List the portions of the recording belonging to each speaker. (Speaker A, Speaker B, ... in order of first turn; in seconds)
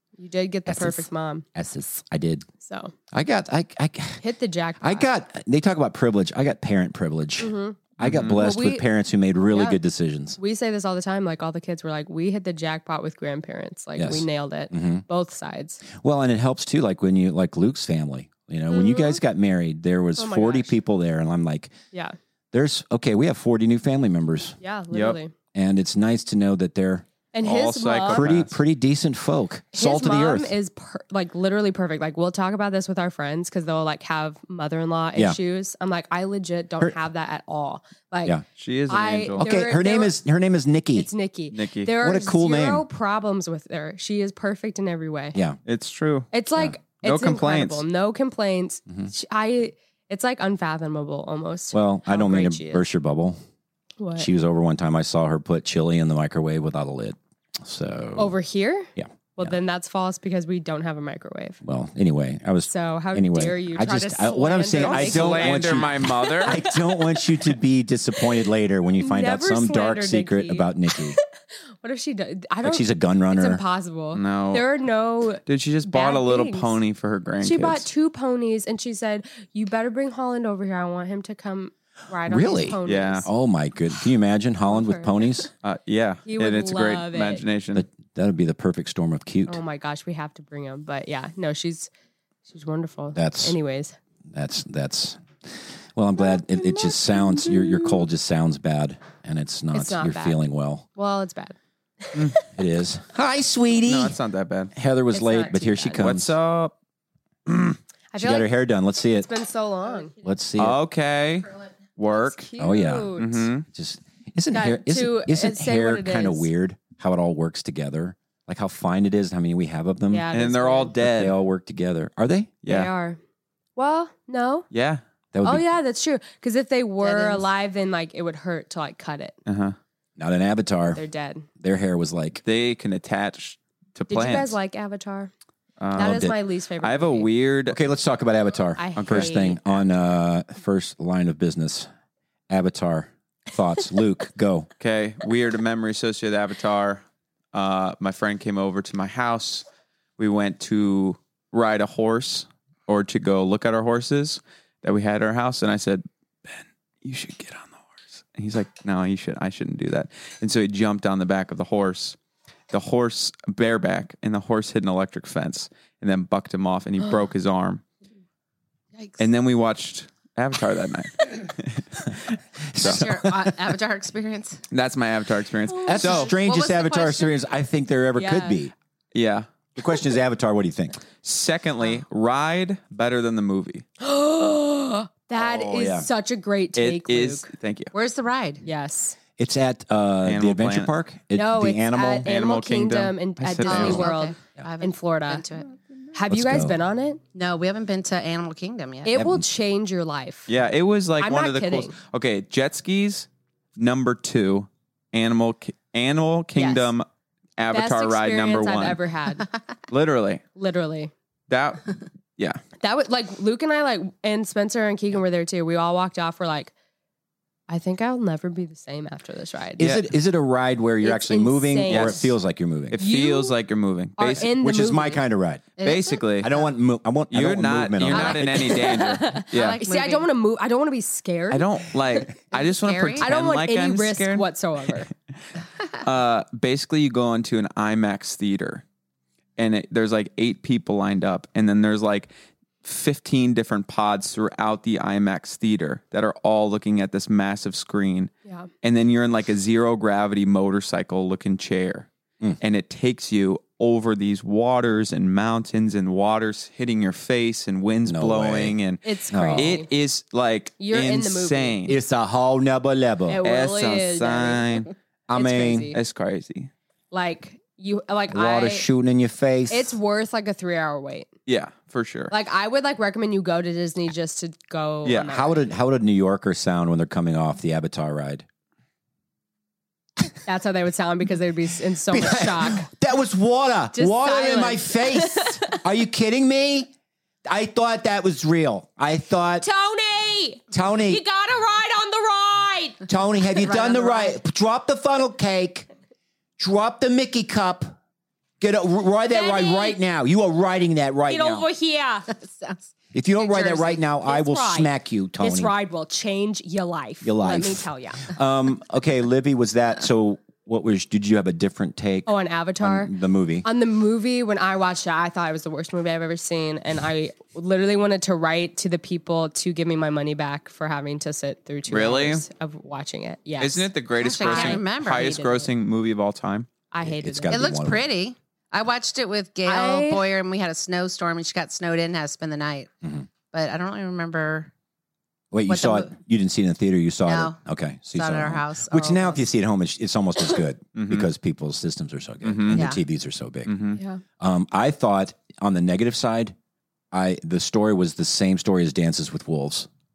Speaker A: 0.2-1.4, 2.6-2.9, 4.2-5.1, 7.4-7.8, 8.3-8.8, 9.5-9.8, 10.4-15.8, 18.7-19.2, 20.2-20.8, 24.6-25.3, 27.3-28.2, 29.7-38.4, 38.9-40.1, 40.9-45.4, 46.3-52.8, 54.0-54.3, 58.2-61.6, 62.7-67.2, 69.0-71.2, 71.8-76.8, 77.4-83.3, 84.7-85.4, 86.2-87.4, 89.5-91.9, 92.5-94.0, 96.5-97.9, 99.7-100.4, 101.0-102.2, 105.1-106.0, 108.1-108.5, 109.1-110.1, 112.1-113.5, 114.5-116.5, 120.1-120.9, 122.7-123.2, 123.8-124.7, 125.4-129.3, 130.9-131.5, 134.1-135.3, 135.9-137.3, 138.8-139.6, 178.2-178.6, 184.0-187.5, 188.6-189.2, 191.3-195.4, 196.1-197.2, 199.0-200.5, 201.2-201.9, 206.5-206.9, 207.7-209.5, 210.6-211.1, 212.8-216.7, 217.7-219.8, 221.0-222.3, 223.0-223.6, 224.2-225.2, 228.7-232.3, 233.2-235.1, 259.0-259.9, 260.8-261.8, 263.3-264.8, 265.3-266.0, 267.1-268.9, 269.7-271.3, 272.3-275.6, 280.4-282.9, 283.9-285.8, 289.6-293.0, 299.3-300.0, 301.3-302.3, 303.4-308.2, 312.2-313.1, 313.6-325.7, 326.9-327.7, 329.6-330.2, 344.0-344.2
Speaker B: 0.7-2.5, 3.1-4.2, 4.8-10.4, 13.9-15.0, 16.0-21.7, 22.5-24.6, 25.5-27.1, 28.1-30.5, 39.4-41.1, 42.0-42.9, 45.3-45.6, 51.7-53.4, 54.2-58.3, 59.0-59.5, 61.6-71.2, 72.6-73.6, 82.2-85.5, 87.7-89.6, 93.1-93.6, 94.3-100.8, 102.5-104.2, 104.7-106.3, 108.2-109.3, 110.2-110.8, 112.6-120.3, 121.0-122.5, 125.3-125.7, 130.2-131.0, 131.6-132.4, 135.9-136.3, 137.7-141.9, 142.5-144.7, 172.7-173.5, 175.8-178.7, 179.8-181.0, 185.6-186.1, 189.4-192.3, 196.3-196.8, 199.1-199.4, 219.8-223.0, 224.6-225.7, 226.4-228.7, 258.1-258.8, 259.3-259.8, 261.9-263.4, 265.3-265.9, 268.3-269.9, 275.1-278.4, 282.1-286.9, 287.4-289.6, 290.7-291.2, 293.1-295.9, 296.6-297.9, 298.6-301.7, 303.1-305.7, 307.2-313.6, 327.0-328.1, 333.0-333.3, 335.5-343.8, 344.4-346.5, 347.1-349.9
Speaker C: 8.0-8.4, 24.9-25.2, 27.4-28.6, 38.6-39.4, 41.5-41.9, 45.6-46.3, 47.0-47.8, 64.8-66.6, 74.1-74.6, 75.5-77.8, 82.8-83.3, 85.6-87.8, 103.9-104.7, 106.0-106.7, 107.5-107.8, 110.6-112.5, 113.2-113.7, 120.3-121.3, 122.6-122.9, 124.7-125.0, 129.4-129.8, 132.4-134.5, 135.8-137.8, 139.0-139.4, 144.8-147.0, 147.5-149.6, 150.2-162.2, 162.7-167.8, 169.2-173.1, 174.7-176.4, 179.1-179.5, 181.2-183.8, 185.4-185.7, 186.8-187.9, 190.2-190.9, 192.2-194.1, 200.5-207.1, 207.6-209.0, 209.9-210.4, 211.5-212.6, 221.9-222.2, 222.9-224.5, 225.8-226.5, 227.3-229.8, 231.5-235.0, 236.0-238.8, 239.6-242.3, 242.8-248.3, 248.8-252.1, 252.6-259.0, 259.5-261.9, 263.4-264.9, 265.9-266.7, 271.5-272.3, 275.0-275.3, 321.9-322.4, 323.6-326.7, 340.9-341.3, 342.4-342.9, 343.6-344.0
Speaker D: 127.0-127.5, 168.9-169.2, 172.8-174.6, 176.0-177.3, 187.9-188.6, 193.7-195.8, 197.3-199.1, 225.8-226.7, 228.1-230.3, 232.5-233.3, 293.6-294.3, 302.3-302.9, 324.2-325.4, 327.5-332.9, 333.5-334.7, 335.7-336.1, 337.2-337.6, 338.1-339.4, 342.7-343.0